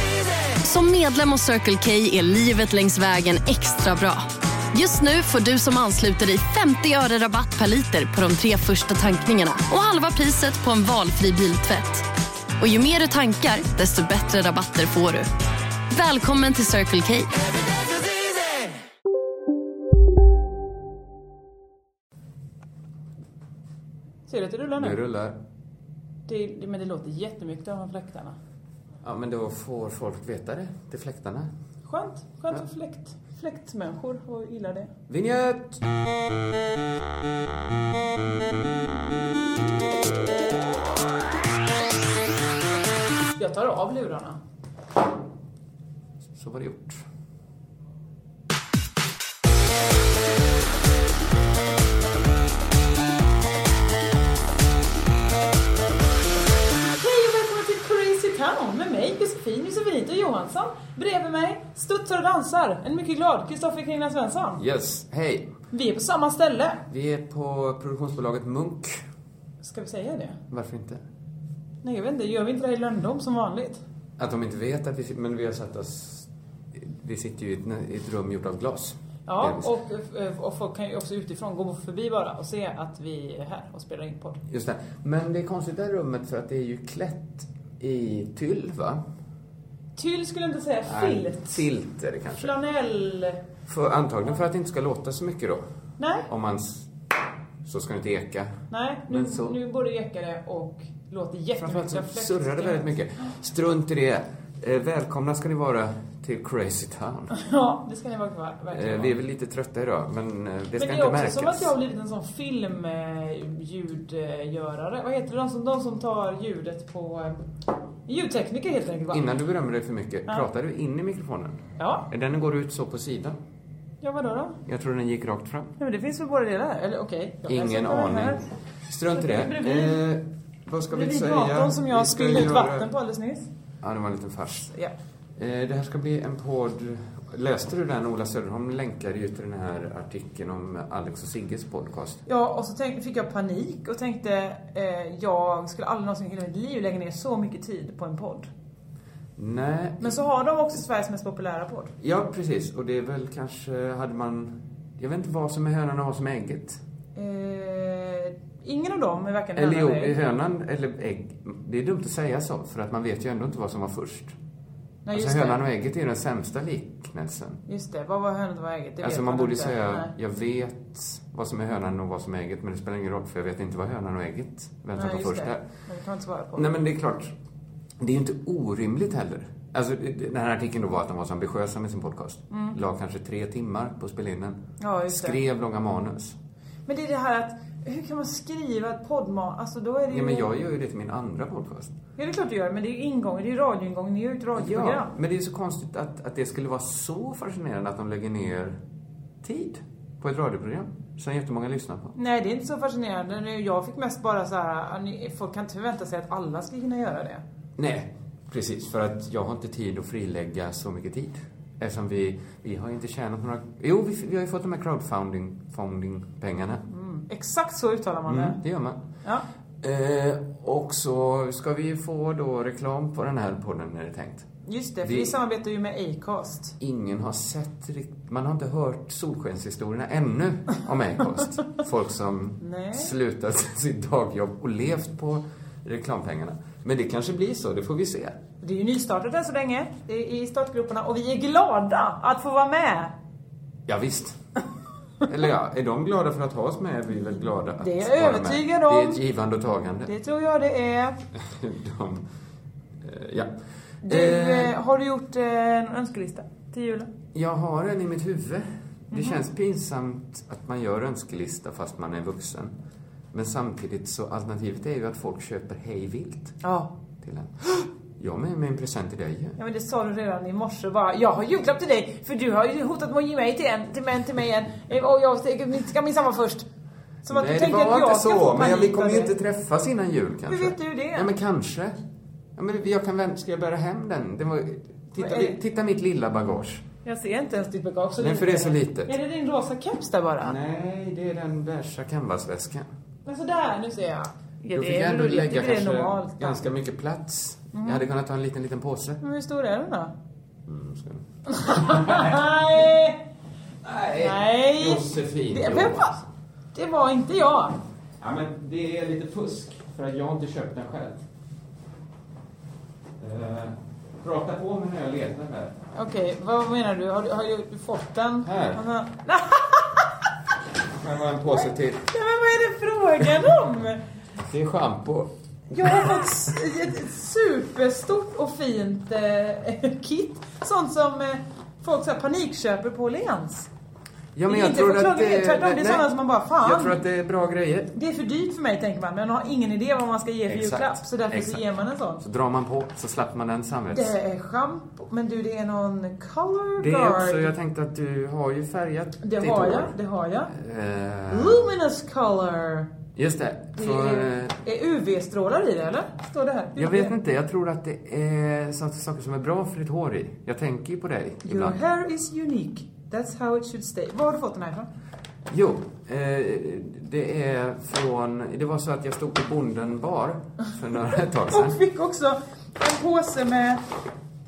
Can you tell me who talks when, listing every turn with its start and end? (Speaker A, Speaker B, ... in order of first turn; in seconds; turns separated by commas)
Speaker A: 0.6-12.1, Speaker A: 12.6-15.3, Speaker A: 15.9-17.5, Speaker B: 24.3-25.0, Speaker C: 24.8-25.4, Speaker B: 26.3-28.4, Speaker C: 29.0-31.5, Speaker B: 31.9-34.9, Speaker C: 35.1-35.8, Speaker B: 43.4-44.4, Speaker C: 46.4-47.0, Speaker B: 57.0-64.6, Speaker C: 64.6-65.5, Speaker B: 65.7-66.8, Speaker C: 66.9-69.0, Speaker B: 69.6-70.4, Speaker C: 70.5-71.0, Speaker B: 71.8-73.8, Speaker C: 74.2-79.7, Speaker B: 79.2-84.4, Speaker C: 84.5-89.0, Speaker B: 90.0-91.6, Speaker C: 90.8-92.5, Speaker B: 92.4-93.4, Speaker C: 93.7-95.6, Speaker B: 96.0-96.3, Speaker C: 96.3-96.9, Speaker C: 97.7-99.6, Speaker B: 98.7-102.8, Speaker C: 101.6-107.3, Speaker B: 107.3-109.1, Speaker C: 108.7-111.7, Speaker B: 110.8-117.4, Speaker B: 118.1-119.2, Speaker C: 119.1-123.4, Speaker B: 121.8-122.1, Speaker B: 124.0-124.6, Speaker C: 124.7-125.8, Speaker B: 125.8-128.4, Speaker C: 127.5-132.9, Speaker B: 129.1-130.0, Speaker B: 130.9-133.5, Speaker C: 133.8-134.7, Speaker C: 135.4-142.2, Speaker B: 142.2-148.5, Speaker C: 149.4-150.2, Speaker B: 150.0-151.9, Speaker C: 152.0-156.8, Speaker B: 157.1-160.1, Speaker C: 159.6-164.3, Speaker B: 165.0-165.6, Speaker C: 165.1-167.6, Speaker B: 167.7-170.1, Speaker C: 169.0-175.6, Speaker B: 174.9-176.7, Speaker C: 176.5-177.3, Speaker C: 178.0-186.4, Speaker B: 182.5-182.8, Speaker B: 184.8-185.4, Speaker B: 186.9-190.5, Speaker C: 190.1-191.9, Speaker B: 192.2-195.1, Speaker C: 194.5-198.8, Speaker C: 199.4-202.1, Speaker B: 202.1-207.4, Speaker C: 207.8-216.8, Speaker B: 216.9-218.6, Speaker C: 218.2-219.0, Speaker C: 219.8-224.5, Speaker B: 224.6-226.8, Speaker C: 225.0-225.4, Speaker C: 226.8-238.4, Speaker B: 232.6-233.1, Speaker B: 238.6-243.1, Speaker C: 243.9-244.4, Speaker C: 245.2-250.1, Speaker B: 247.8-249.2, Speaker B: 250.1-251.2, Speaker C: 251.3-252.2, Speaker C: 253.0-253.5, Speaker C: 254.0-254.7, Speaker B: 254.0-257.1, Speaker C: 257.3-262.7, Speaker B: 259.1-259.4, Speaker C: 263.3-266.6, Speaker B: 266.6-266.9, Speaker C: 267.2-269.6, Speaker B: 269.6-276.6, Speaker B: 277.2-279.3, Speaker C: 277.3-281.9, Speaker B: 280.5-281.3, Speaker C: 282.6-286.9, Speaker B: 285.1-285.6, Speaker B: 287.1-290.6, Speaker C: 288.2-289.1, Speaker C: 290.4-292.9, Speaker B: 293.2-296.6, Speaker C: 294.7-299.2, Speaker B: 297.7-298.1, Speaker B: 299.2-300.1, Speaker C: 300.7-302.4, Speaker B: 301.5-303.2, Speaker C: 303.8-306.2, Speaker B: 304.2-306.2, Speaker B: 306.7-307.8, Speaker C: 308.2-311.2, Speaker C: 313.2-315.8, Speaker B: 315.9-320.1, Speaker C: 318.4-318.8, Speaker C: 321.0-322.1, Speaker B: 321.5-324.0, Speaker C: 324.5-326.6, Speaker B: 325.7-333.7, Speaker C: 334.4-336.1, Speaker B: 334.5-337.0, Speaker C: 336.6-337.9, Speaker B: 337.9-342.2, Speaker C: 340.5-341.6, Speaker C: 342.2-344.1, Speaker B: 343.9-347.5, Speaker C: 346.8-350.0, Speaker B: 349.2-350.5, Speaker C: 350.5-351.7, Speaker B: 351.3-352.9, Speaker C: 353.1-354.6, Speaker B: 353.8-357.1, Speaker C: 356.8-361.8, Speaker B: 361.4-364.9, Speaker C: 365.5-371.8, Speaker B: 371.5-373.8